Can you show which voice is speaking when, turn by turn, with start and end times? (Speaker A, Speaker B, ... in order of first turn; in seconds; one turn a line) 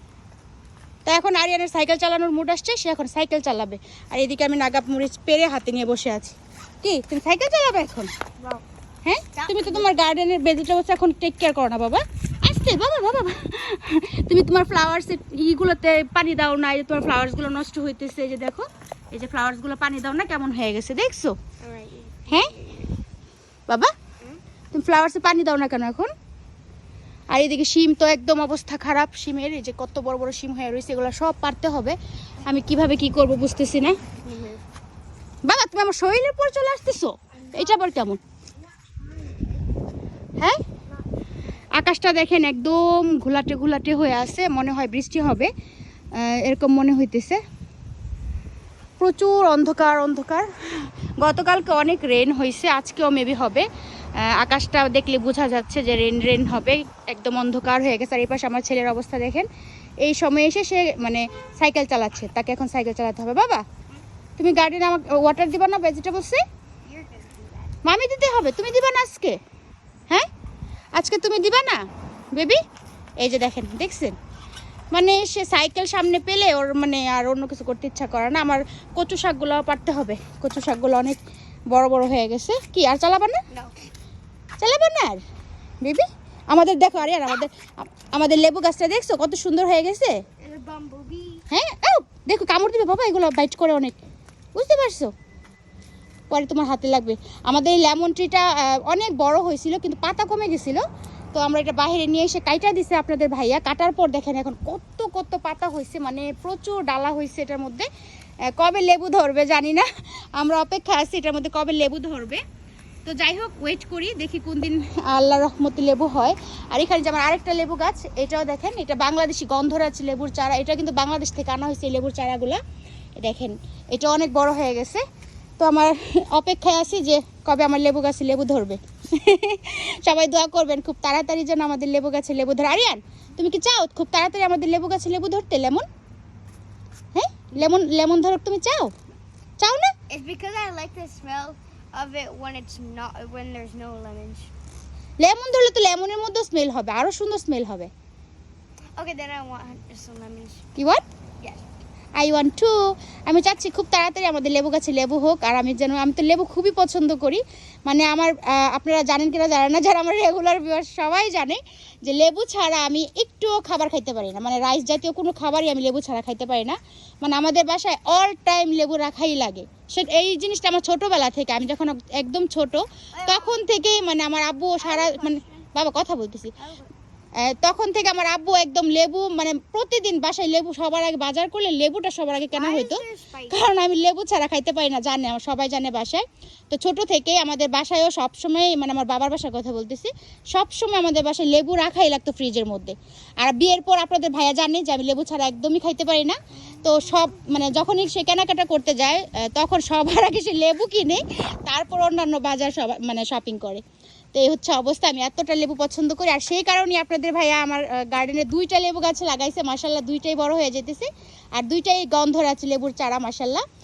Speaker A: 1.1-8.1
Speaker A: 9.0-21.3
Speaker B: 9.3-9.9
Speaker B: 21.6-22.9
Speaker A: 24.7-26.1
Speaker A: 27.3-34.0
Speaker B: 34.2-34.6
Speaker A: 35.4-38.2
Speaker B: 37.4-37.9
Speaker B: 38.8-39.6
Speaker A: 41.7-45.5
Speaker A: 46.1-47.4
Speaker A: 49.0-59.5
Speaker A: 60.0-63.6
Speaker A: 64.4-66.4
Speaker B: 66.8-67.8
Speaker A: 67.8-69.3
Speaker A: 70.9-71.8
Speaker A: 72.3-72.6
Speaker A: 73.2-74.1
Speaker A: 74.9-81.2
Speaker A: 81.7-83.4
Speaker B: 83.5-83.9
Speaker A: 84.6-85.2
Speaker A: 85.8-90.2
Speaker B: 90.4-91.5
Speaker A: 91.5-94.0
Speaker A: 94.5-95.1
Speaker A: 96.3-100.8
Speaker A: 101.3-107.9
Speaker A: 108.5-112.4
Speaker A: 113.0-122.6
Speaker A: 123.2-125.0
Speaker A: 125.6-135.8
Speaker A: 137.1-138.9
Speaker A: 139.6-139.9
Speaker B: 140.1-144.5
Speaker A: 145.2-147.9
Speaker B: 149.0-150.6
Speaker A: 150.8-151.0
Speaker A: 152.2-152.7
Speaker A: 153.2-176.5
Speaker B: 173.1-173.6
Speaker B: 174.8-175.6
Speaker B: 176.6-176.9
Speaker A: 177.4-213.6
Speaker B: 182.5-183.6